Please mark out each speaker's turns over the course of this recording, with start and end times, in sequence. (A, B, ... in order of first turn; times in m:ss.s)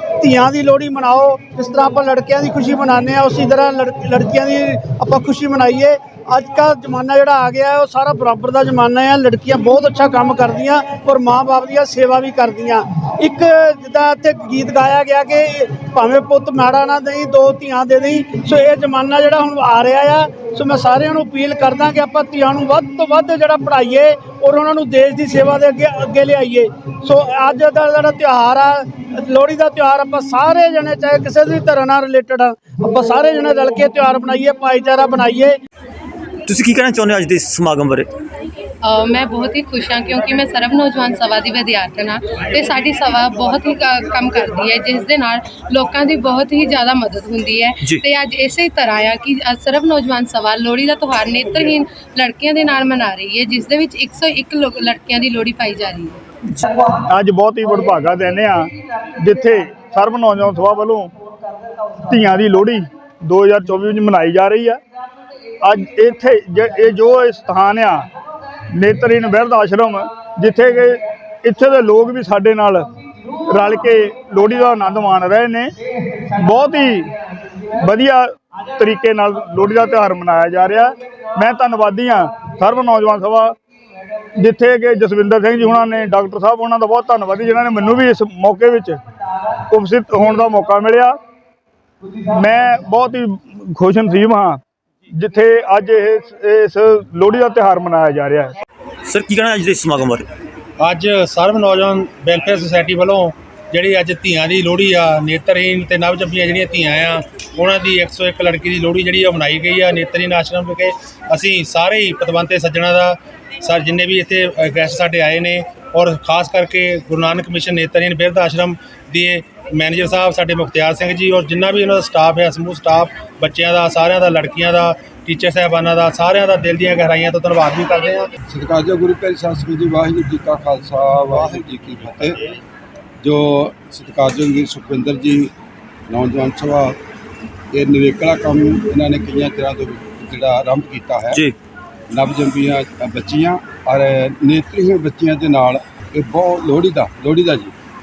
0:00.2-0:35.6 A
0:36.5-0:38.1 B
0:38.8-0:56.1 C
0:56.8-1:01.1 D
1:02.1-1:04.8 D
1:05.6-1:08.0 D
1:08.7-1:12.8 D
1:13.5-1:15.7 D
1:16.4-1:17.1 D
1:17.8-1:23.5 D
1:24.4-1:29.0 D
1:29.7-1:31.1 D
1:32.3-1:34.6 D
1:35.1-1:38.5 D
1:39.0-1:40.3 B
1:40.8-2:08.3 E
2:08.5-2:12.4 F
2:13.2-2:15.5 F
2:16.1-2:17.0 F
2:17.7-2:21.4 F
2:22.1-2:27.7 F